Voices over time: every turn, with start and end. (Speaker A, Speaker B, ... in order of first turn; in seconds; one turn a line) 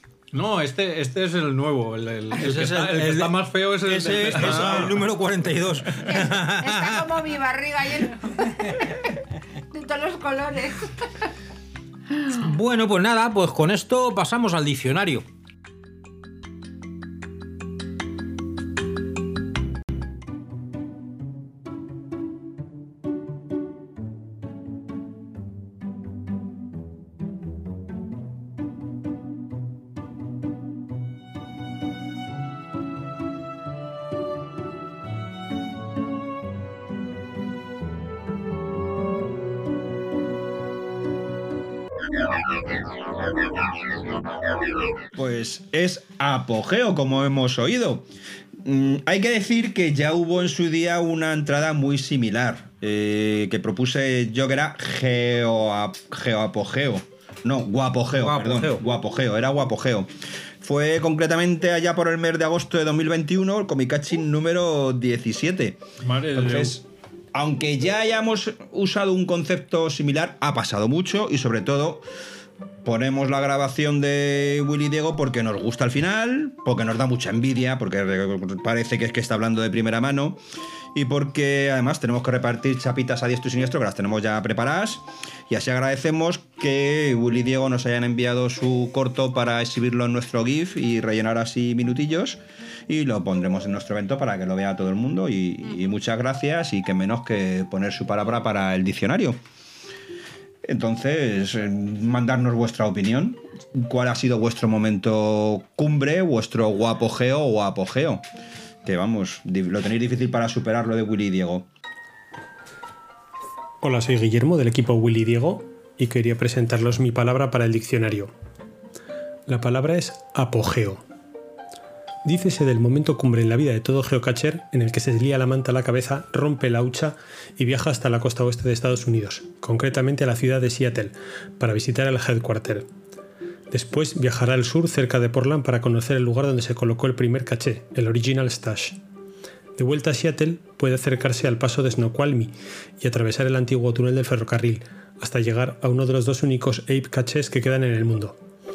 Speaker A: 0.3-5.0
Speaker B: 2.4-7.0
Speaker C: 4.3-5.0
Speaker D: 6.0-9.0
Speaker D: 9.7-11.1
Speaker B: 12.3-15.2
Speaker C: 45.1-48.1
Speaker C: 48.6-60.1
Speaker B: 58.2-58.8
Speaker C: 60.6-65.8
Speaker A: 66.0-66.8
Speaker C: 66.3-72.0
Speaker C: 72.8-80.4
Speaker C: 80.9-99.4
Speaker C: 100.6-108.2
Speaker C: 108.8-111.7
Speaker E: 113.8-118.3
Speaker E: 119.5-121.0
Speaker E: 122.2-132.9
Speaker E: 133.7-139.0
Speaker E: 139.8-148.4